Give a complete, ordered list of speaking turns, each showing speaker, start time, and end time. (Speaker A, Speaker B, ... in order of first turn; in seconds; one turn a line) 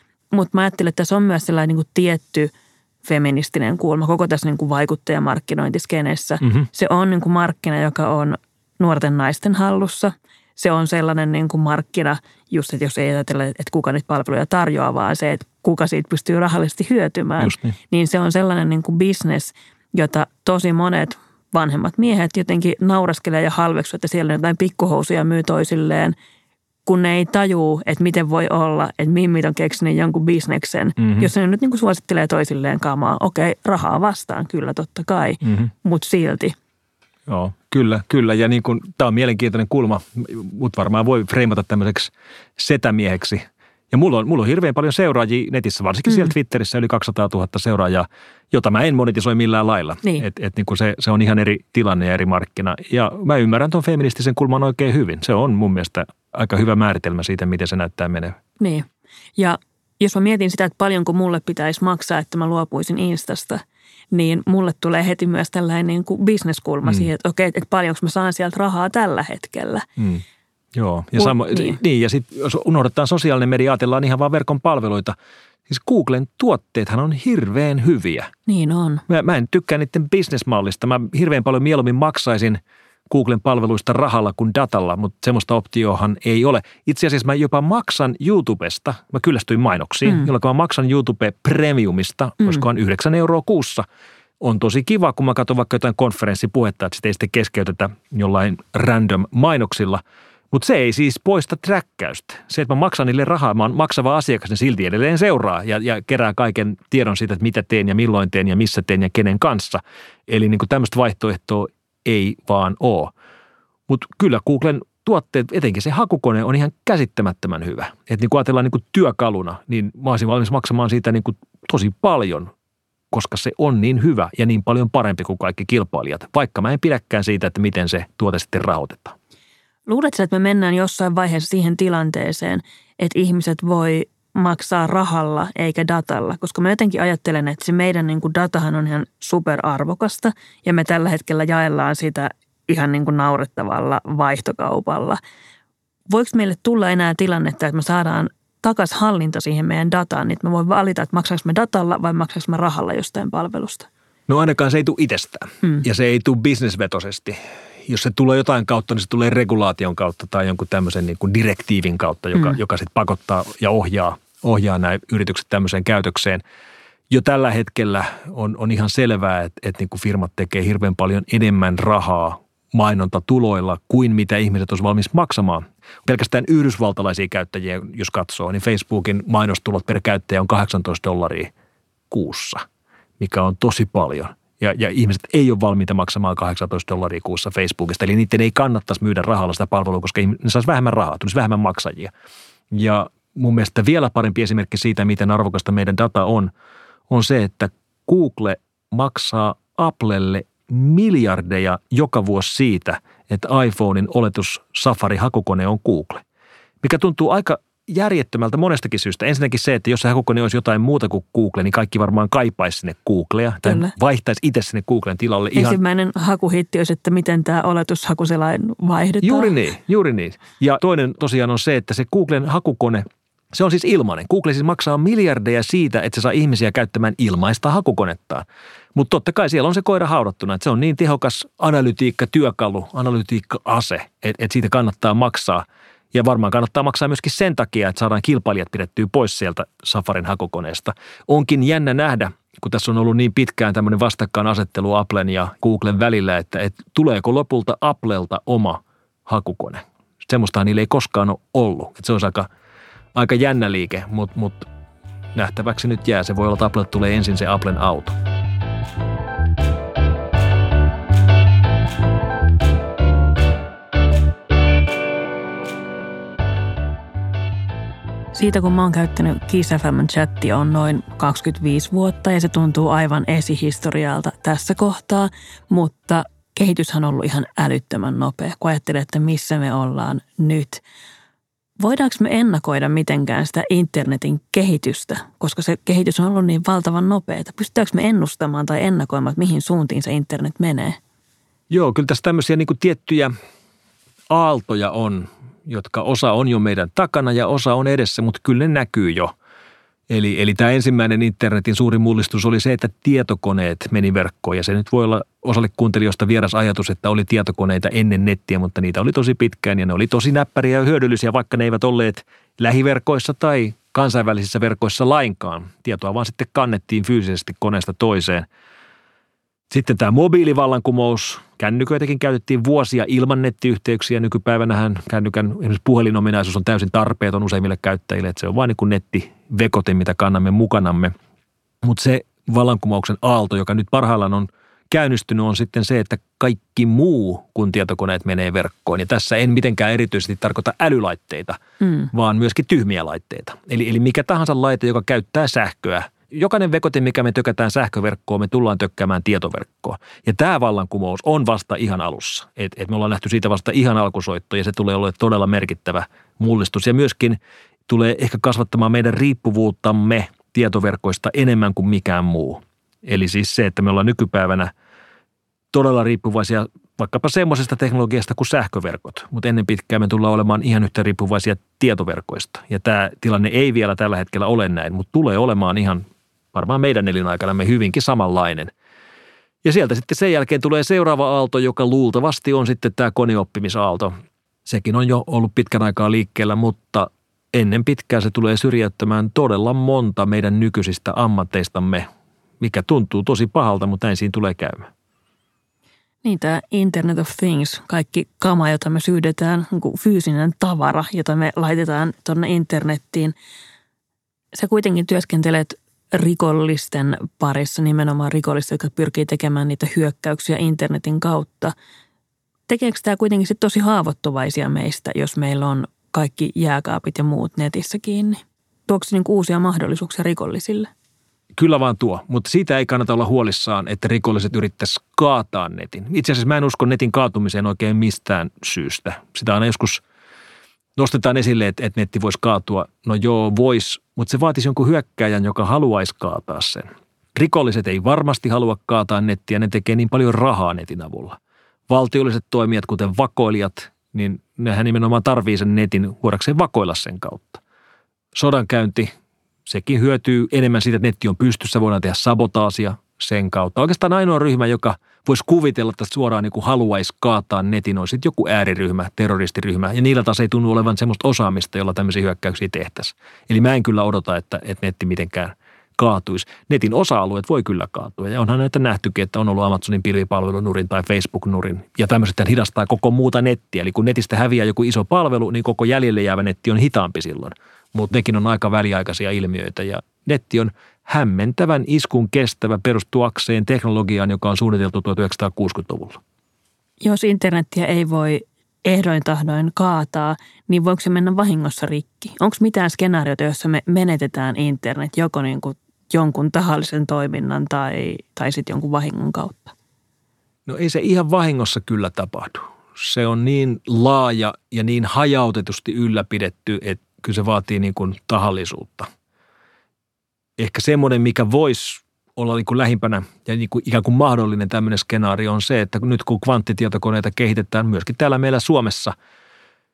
Speaker A: 0.3-2.5
Speaker A: 3.0-26.2
Speaker B: 17.4-17.8
Speaker A: 26.9-36.5
Speaker B: 31.0-31.3
Speaker B: 35.4-35.7
Speaker B: 37.3-58.4
Speaker A: 58.6-69.9
Speaker B: 70.0-70.2
Speaker B: 70.8-75.2
Speaker A: 71.2-71.8
Speaker B: 75.7-78.3
Speaker A: 78.5-79.0
Speaker B: 79.1-93.8
Speaker B: 94.4-113.1
Speaker B: 113.9-122.5
Speaker B: 123.1-129.2
Speaker A: 129.9-145.2
Speaker A: 146.1-153.9
Speaker B: 154.3-166.4
Speaker B: 167.1-181.5
Speaker B: 182.1-182.6
Speaker B: 183.2-192.1
Speaker B: 192.7-196.5
Speaker B: 197.1-206.2
Speaker B: 206.8-215.8
Speaker A: 213.7-213.9
Speaker A: 215.5-219.5
Speaker B: 219.2-252.5
Speaker B: 253.2-254.7
Speaker B: 255.3-258.1
Speaker A: 268.3-280.8
Speaker A: 281.8-291.0
Speaker B: 291.7-293.3
Speaker B: 294.3-299.3
Speaker B: 300.1-318.5
Speaker B: 319.7-331.1
Speaker B: 331.8-341.6
Speaker A: 341.8-342.1
Speaker B: 342.1-364.7
Speaker B: 365.7-378.7
Speaker B: 379.6-384.1
Speaker B: 384.6-392.1
Speaker B: 392.6-394.9
Speaker A: 396.2-403.4
Speaker A: 404.5-411.7
Speaker A: 412.7-420.9
Speaker B: 421.6-430.0
Speaker B: 431.0-441.4
Speaker B: 441.9-447.6
Speaker B: 448.3-449.1
Speaker B: 449.7-486.2
Speaker A: 487.0-499.7
Speaker B: 500.7-509.1
Speaker B: 510.6-519.1